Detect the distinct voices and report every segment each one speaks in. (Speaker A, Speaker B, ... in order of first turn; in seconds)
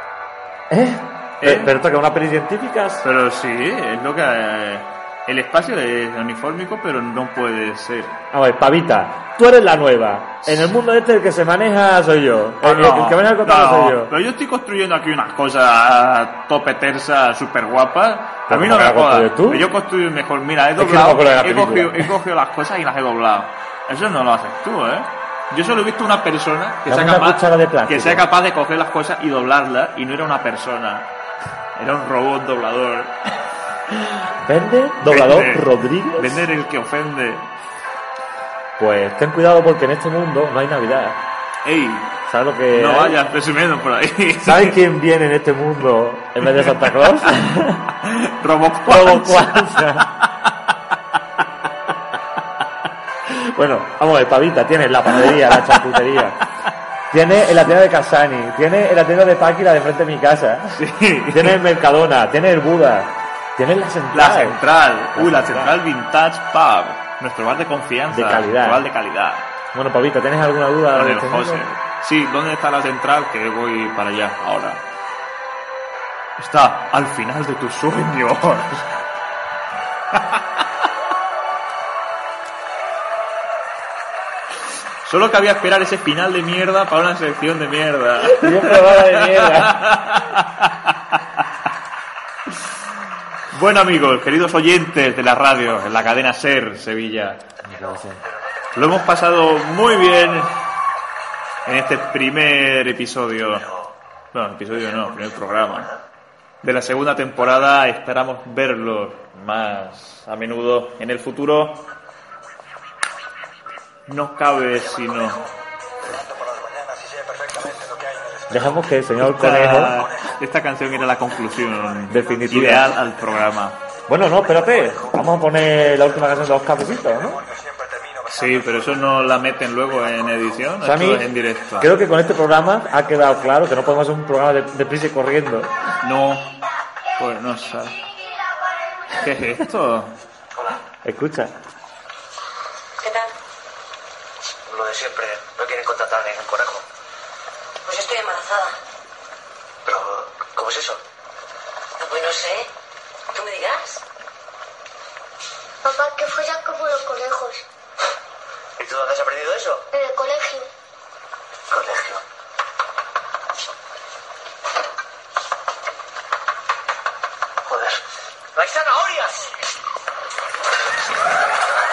Speaker A: 0.7-3.0, 8.3-14.1, 18.5-19.7, 20.8-22.1, 26.8-28.3, 34.4-36.4, 38.8-41.2, 42.3-43.2, 44.4-47.9, 48.9-50.1, 53.3-56.4, 57.1-65.8, 68.1-68.9, 69.7-71.6, 88.2-90.0, 97.6-98.2, 118.5-120.1, 122.1-122.9, 124.1-127.4, 130.8-131.3, 131.8-135.8, 141.0-141.5
Speaker B: 1.4-1.7, 3.0-8.2, 10.4-10.7, 12.6-31.1, 31.7-33.2, 35.0-37.5, 41.6-42.2, 42.7-44.8, 48.0-50.5, 55.2-55.8, 60.7-61.6, 64.1-69.5, 70.9-74.9, 76.4-78.9, 80.1-80.4, 85.0-91.2, 93.5-97.4, 98.7-100.6, 101.6-103.7, 104.3-106.0, 106.6-111.9, 114.1-115.5, 119.2-123.8, 128.3-131.9, 136.0-136.5, 137.2-138.0, 139.2-140.2
Speaker C: 143.0-143.3, 147.8-148.8, 152.0-152.7, 153.3-154.0
Speaker D: 144.8-146.5, 150.6-150.8, 159.1-159.8
Speaker E: 155.8-157.6, 159.9-160.7